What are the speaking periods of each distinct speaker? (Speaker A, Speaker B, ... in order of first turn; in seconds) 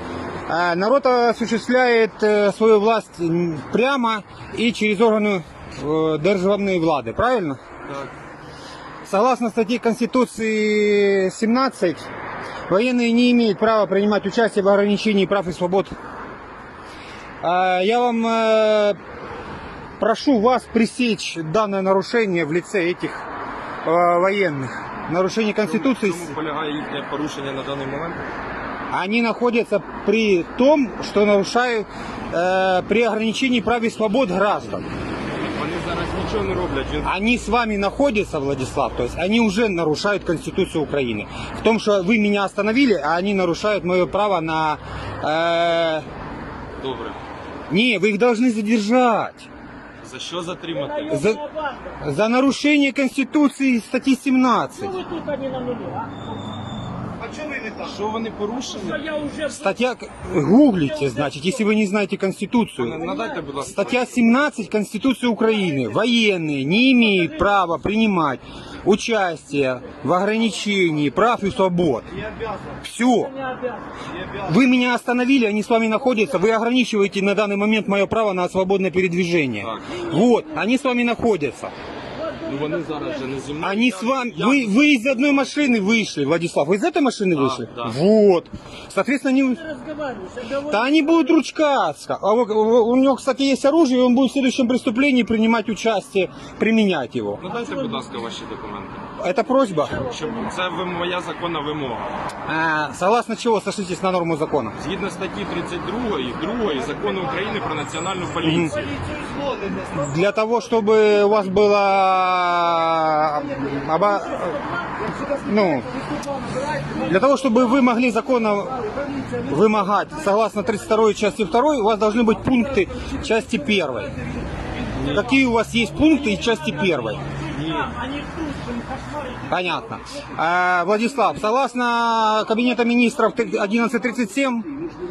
Speaker A: 0.5-7.6, 9.1-12.1, 12.7-15.9, 17.4-19.0, 20.0-23.2, 23.8-26.3, 28.9-34.8, 37.0-46.0, 47.7-49.5, 51.1-51.4, 52.0-55.0, 59.5-63.0, 63.7-72.1, 72.8-73.4, 74.4-81.7, 83.6-89.6, 90.6-97.4, 99.2-100.0, 102.5-104.8, 108.4-108.8, 109.9-114.6, 115.3-115.9, 117.0-118.8, 119.5-124.1, 125.0-127.2, 129.5-134.7
Speaker B: 25.6-28.2, 35.4-37.1, 46.8-47.2, 50.0-51.3, 57.4-59.1, 62.8-64.2, 79.6-80.1, 82.4-85.6, 87.3-88.0, 97.4-99.1, 99.9-102.1, 104.8-109.0, 124.8-125.4, 127.5-127.9
Speaker C: 51.2-51.8, 54.9-56.3, 59.0-59.4, 73.5-73.8, 82.2-83.0, 89.8-90.7, 127.4-129.4